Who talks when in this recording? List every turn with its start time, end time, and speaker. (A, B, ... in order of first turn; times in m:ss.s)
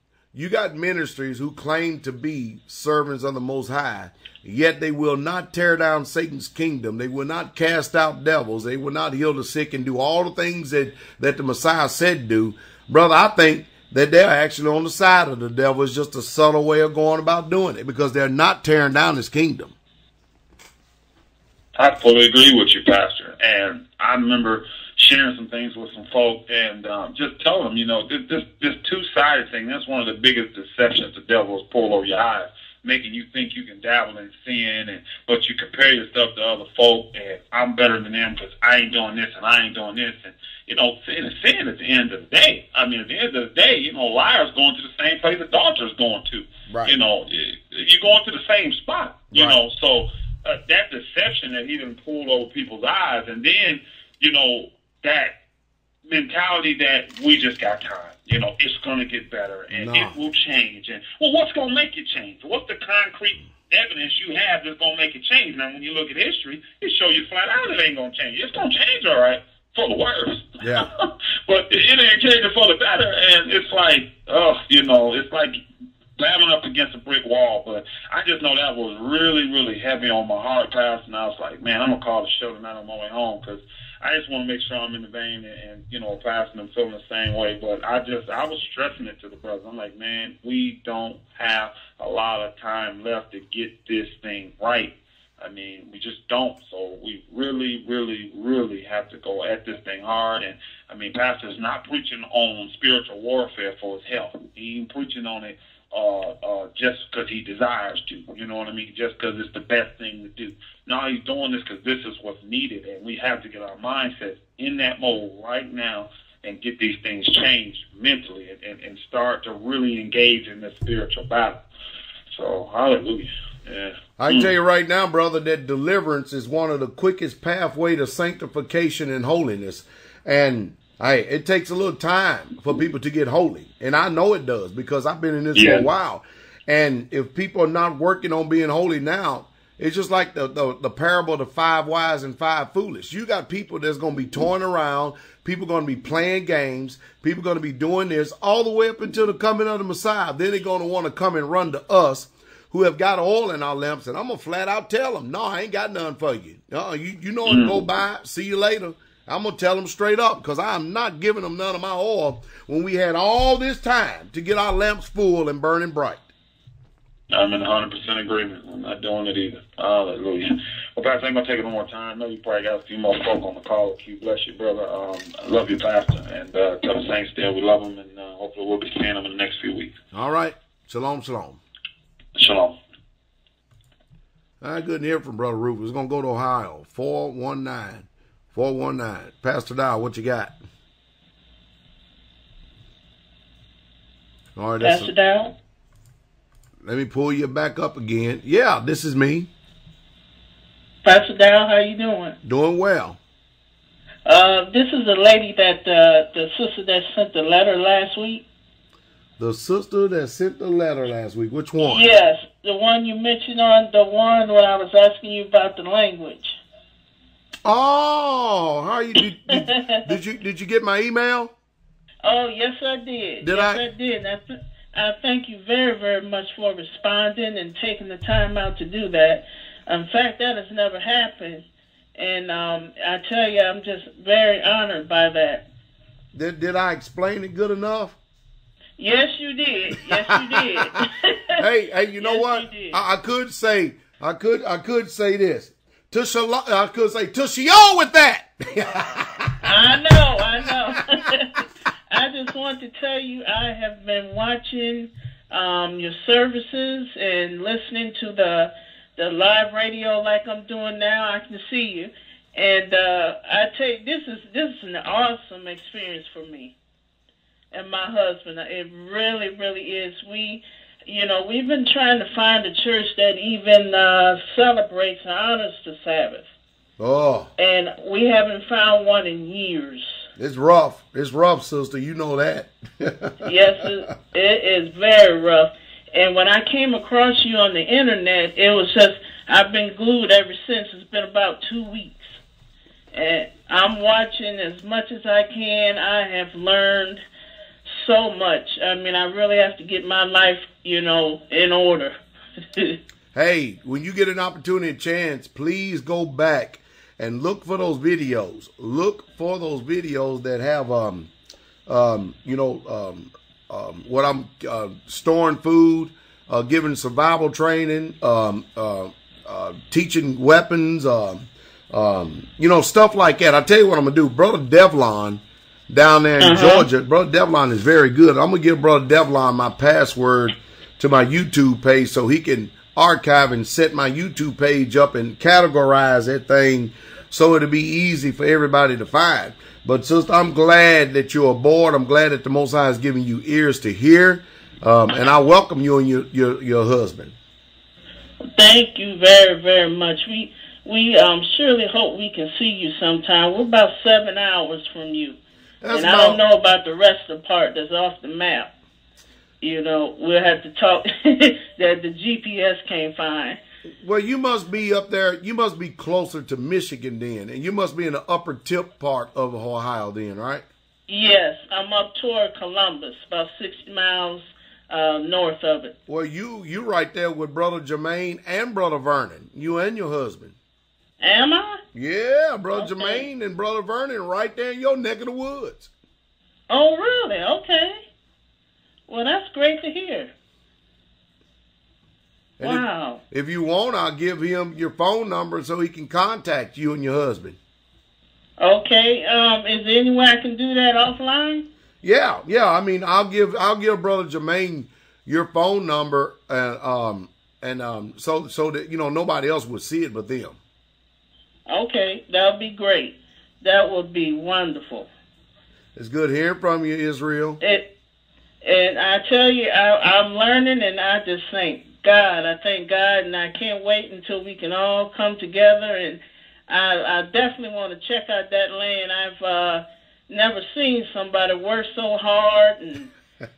0:00.3-0:19.7 A
0:21.8-0:55.3 B
0:46.7-0:47.0 A
0:49.3-0:49.6 A
0:56.1-1:15.6 B
0:59.7-1:00.2 A
1:10.6-1:10.9 A
1:16.2-2:01.6 B
2:02.3-2:04.5 B
2:04.2-2:46.2 A
2:15.6-2:15.8 B
2:37.5-2:37.8 B
2:47.3-2:59.9 B
3:00.1-3:01.6 A
3:02.4-3:02.7 B
3:04.6-3:10.6 A
3:14.6-3:15.1 A
3:14.8-3:15.5 C
3:16.8-3:19.5 A
3:21.0-3:22.4 C
3:22.4-3:23.2 A
3:24.3-3:28.4 C
3:29.4-3:32.1 A
3:31.8-3:36.6 C
3:37.6-3:41.5 A
3:39.7-3:40.0 C
3:42.2-3:51.6 C
3:43.4-3:43.8 A
3:52.2-3:55.6 C
3:56.3-3:58.2 A
3:59.0-4:01.6 C
4:01.6-4:09.5 A
4:02.2-4:03.0 C
4:09.6-4:26.7 C
4:27.7-4:36.4 C
4:37.0-4:37.5 A
4:37.6-4:40.1 C
4:40.4-4:43.4 A
4:43.4-4:52.4 C
4:53.1-4:57.2 C
4:57.9-5:02.1 C
5:02.7-5:03.0 C
5:03.3-5:11.3 A
5:11.9-5:47.3 A
5:26.4-5:26.9 C
5:48.6-5:55.4 C
5:55.8-5:56.4 A
5:55.9-5:58.7 C
5:59.6-6:03.6 C
6:04.0-6:10.6 A
6:11.1-6:15.9 C
6:16.1-6:20.6 A
6:21.2-6:21.8 C
6:21.9-6:25.9 A
6:22.7-6:23.3 C
6:26.7-6:28.0 C
6:29.1-6:30.3 C
6:32.6-6:37.6 A
6:32.6-6:33.2 C
6:38.6-6:41.6 C
6:42.0-6:50.6 A
6:51.7-6:55.1 C
6:56.0-6:57.6 A
6:57.6-6:57.9 C
6:58.6-7:13.1 C